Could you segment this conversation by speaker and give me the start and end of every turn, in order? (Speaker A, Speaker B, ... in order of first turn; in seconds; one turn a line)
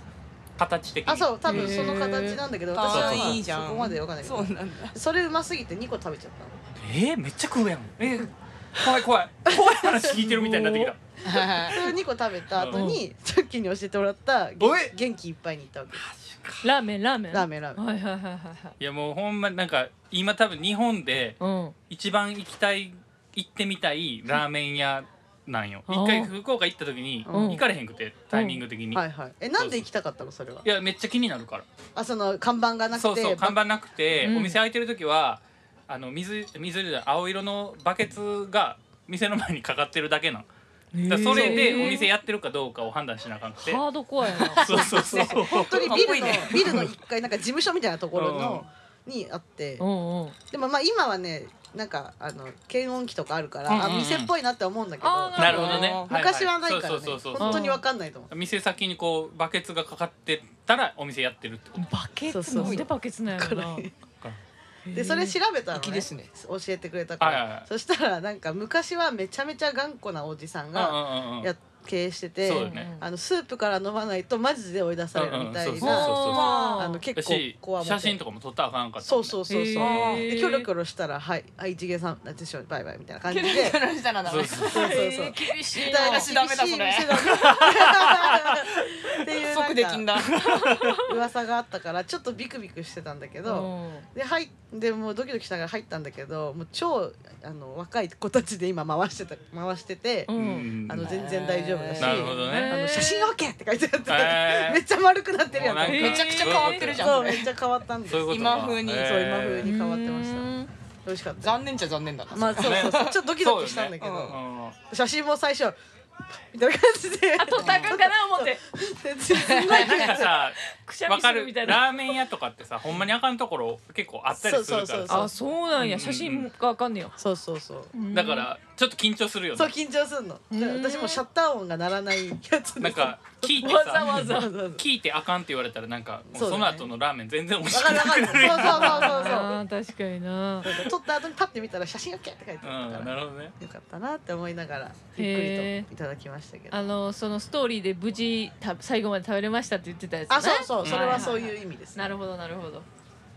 Speaker A: 0.6-1.3
Speaker B: 1.1-6.5
Speaker C: 1.5-2.4
Speaker D: 1.5-5.0
Speaker A: 2.9-3.4
Speaker A: 6.8-11.0
Speaker C: 10.4-10.9
Speaker D: 11.2-11.9
Speaker B: 11.3-16.1
Speaker A: 12.6-12.8
Speaker C: 12.7-13.0
Speaker A: 14.6-14.9
Speaker A: 15.9-16.7
Speaker C: 16.6-18.8
Speaker B: 17.3-17.8
Speaker A: 18.8-21.4
Speaker C: 21.4-21.8
Speaker A: 21.9-29.0
Speaker C: 25.9-26.3
Speaker B: 27.3-27.6
Speaker C: 27.3-27.6
Speaker C: 28.3-28.6
Speaker B: 28.9-30.7
Speaker A: 30.6-31.7
Speaker B: 31.9-33.6
Speaker A: 32.9-40.5
Speaker C: 34.2-34.6
Speaker C: 40.9-42.1
Speaker A: 41.1-43.8
Speaker B: 41.3-42.0
Speaker C: 43.6-45.4
Speaker A: 44.6-46.9
Speaker B: 44.7-49.9
Speaker D: 44.7-46.9
Speaker A: 48.1-48.7
Speaker C: 49.8-50.4
Speaker B: 50.5-58.3
Speaker D: 53.7-54.0
Speaker A: 53.7-54.3
Speaker C: 55.0-56.0
Speaker D: 55.4-56.1
Speaker A: 55.4-57.7
Speaker C: 57.4-57.8
Speaker A: 58.3-61.8
Speaker C: 61.8-63.9
Speaker B: 62.3-63.9
Speaker D: 62.5-62.9
Speaker C: 64.9-65.4
Speaker B: 64.9-76.2
Speaker D: 65.7-66.3
Speaker A: 67.2-67.7
Speaker A: 70.8-71.5
Speaker A: 72.4-72.9
Speaker C: 72.5-73.0
Speaker A: 75.1-76.6
Speaker C: 75.8-77.0
Speaker D: 76.1-76.9
Speaker B: 76.7-78.2
Speaker A: 77.2-80.2
Speaker B: 79.0-83.8
Speaker C: 79.5-80.7
Speaker D: 79.8-80.3
Speaker D: 83.3-85.0
Speaker A: 84.3-84.8
Speaker C: 84.6-86.3
Speaker B: 84.7-90.2
Speaker D: 85.8-88.5
Speaker A: 87.3-89.1
Speaker D: 89.3-90.4
Speaker A: 90.2-91.1
Speaker C: 90.5-91.0
Speaker B: 91.0-100.3
Speaker C: 93.5-94.1
Speaker C: 100.3-100.7
Speaker A: 100.3-101.1
Speaker B: 100.8-106.3
Speaker D: 101.0-102.4
Speaker A: 102.0-102.8
Speaker C: 102.3-103.3
Speaker A: 104.1-104.8
Speaker A: 105.5-107.2
Speaker C: 105.9-107.0
Speaker D: 105.9-107.5
Speaker B: 107.0-110.5
Speaker A: 108.1-109.7
Speaker D: 108.3-109.2
Speaker C: 109.6-110.7
Speaker B: 111.0-111.6
Speaker D: 111.4-113.2
Speaker B: 112.3-115.8
Speaker A: 112.6-114.8
Speaker D: 114.0-114.4
Speaker B: 116.5-120.3
Speaker C: 117.4-118.6
Speaker D: 117.6-118.0
Speaker D: 119.3-120.1
Speaker A: 119.7-126.5
Speaker C: 120.7-122.2
Speaker B: 124.3-125.3
Speaker C: 125.1-127.2
Speaker B: 127.2-127.9
Speaker C: 127.9-128.5
Speaker A: 128.1-129.7
Speaker B: 129.6-133.3
Speaker C: 130.5-131.2
Speaker A: 132.8-139.4
Speaker C: 133.5-134.5
Speaker B: 133.9-134.8
Speaker B: 136.3-136.9
Speaker B: 137.7-139.5
Speaker C: 138.4-140.8
Speaker B: 140.6-146.9
Speaker A: 142.6-143.5
Speaker C: 145.2-145.9
Speaker C: 146.7-152.9
Speaker B: 150.3-152.1
Speaker A: 150.8-151.3